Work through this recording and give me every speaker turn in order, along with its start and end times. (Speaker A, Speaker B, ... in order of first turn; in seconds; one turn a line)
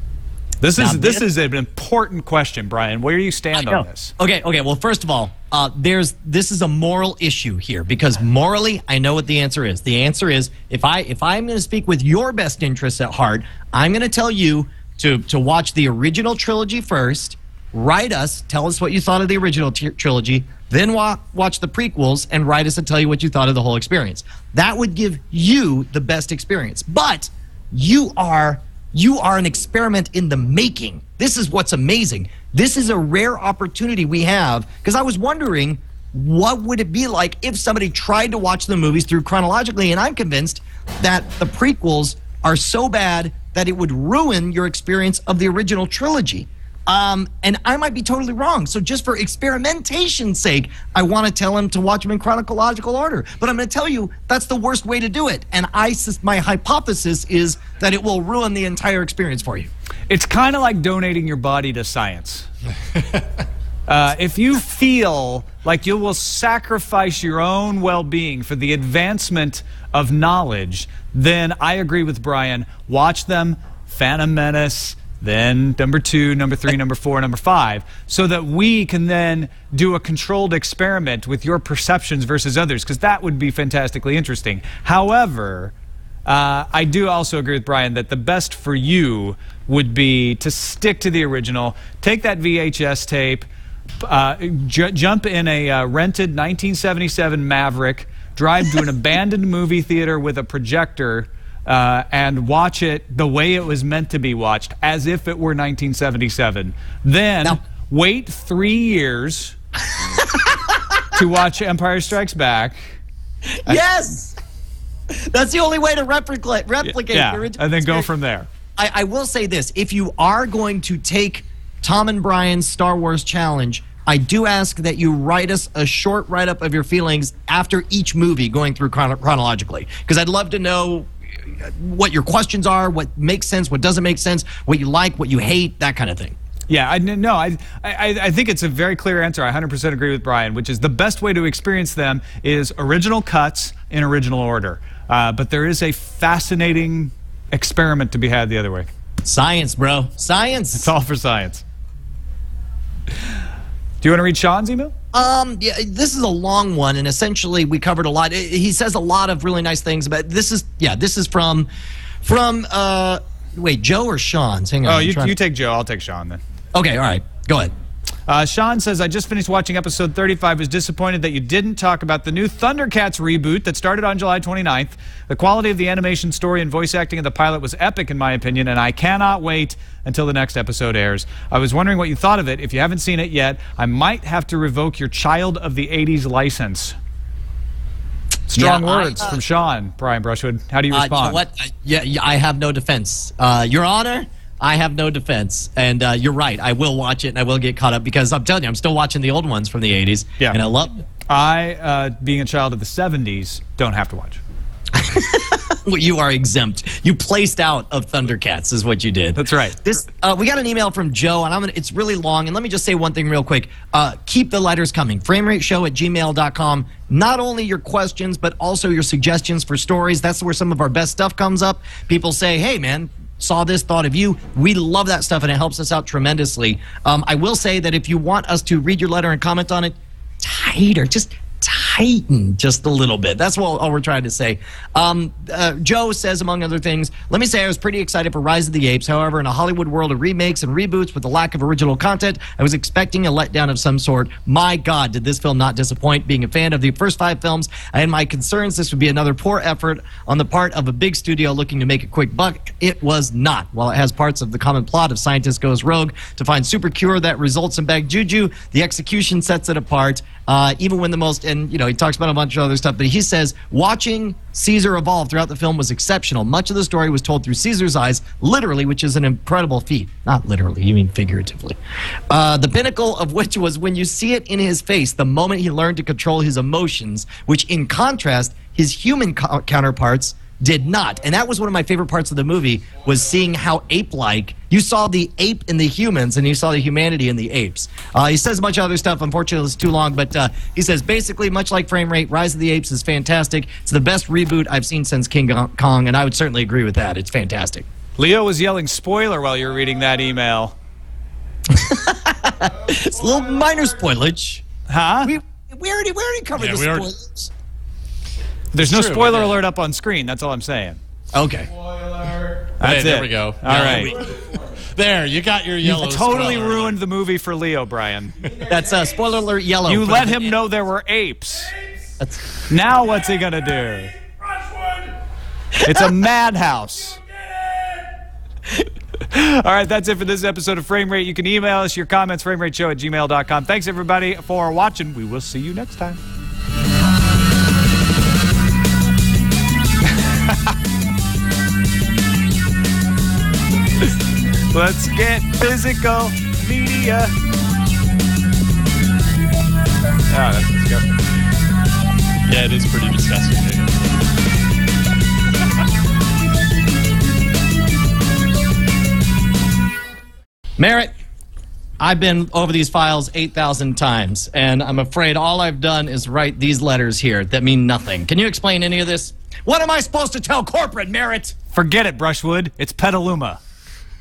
Speaker A: 0.6-4.1
Speaker B: 0.8-1.2
Speaker B: 3.5-59.7
Speaker A: 60.1-62.5
Speaker A: 63.9-85.7
Speaker A: 86.3-93.5
Speaker A: 94.0-109.5
Speaker B: 110.0-110.9
Speaker A: 111.1-112.8
Speaker B: 113.5-114.3
Speaker B: 115.1-118.1
Speaker A: 116.8-118.5
Speaker B: 118.8-136.4
Speaker A: 136.7-148.9
Speaker B: 149.2-150.9
Speaker A: 150.7-151.6
Speaker A: 154.0-154.9
Speaker B: 155.1-161.7
Speaker B: 162.2-165.3
Speaker A: 164.8-166.4
Speaker B: 166.7-167.7
Speaker A: 168.3-186.9
Speaker A: 188.5-191.4
Speaker B: 188.6-189.4
Speaker B: 190.9-201.0
Speaker A: 201.3-204.4
Speaker B: 204.9-271.8
Speaker A: 209.3-209.8
Speaker B: 272.3-297.9
Speaker A: 298.2-300.8
Speaker B: 301.7-304.6
Speaker A: 304.9-305.3
Speaker B: 305.2-307.5
Speaker C: 306.6-307.1
Speaker A: 308.7-311.0
Speaker C: 308.8-309.6
Speaker B: 311.3-311.7
Speaker A: 312.8-314.1
Speaker C: 312.8-317.0
Speaker B: 313.7-314.1
Speaker A: 315.8-318.4
Speaker B: 318.6-320.6
Speaker A: 319.9-321.7
Speaker A: 322.7-324.1
Speaker A: 325.8-327.2
Speaker A: 329.3-336.2
Speaker A: 344.7-347.4
Speaker A: 350.3-351.2
Speaker C: 352.5-354.0
Speaker B: 360.8-361.1
Speaker B: 362.0-371.6
Speaker A: 371.7-373.6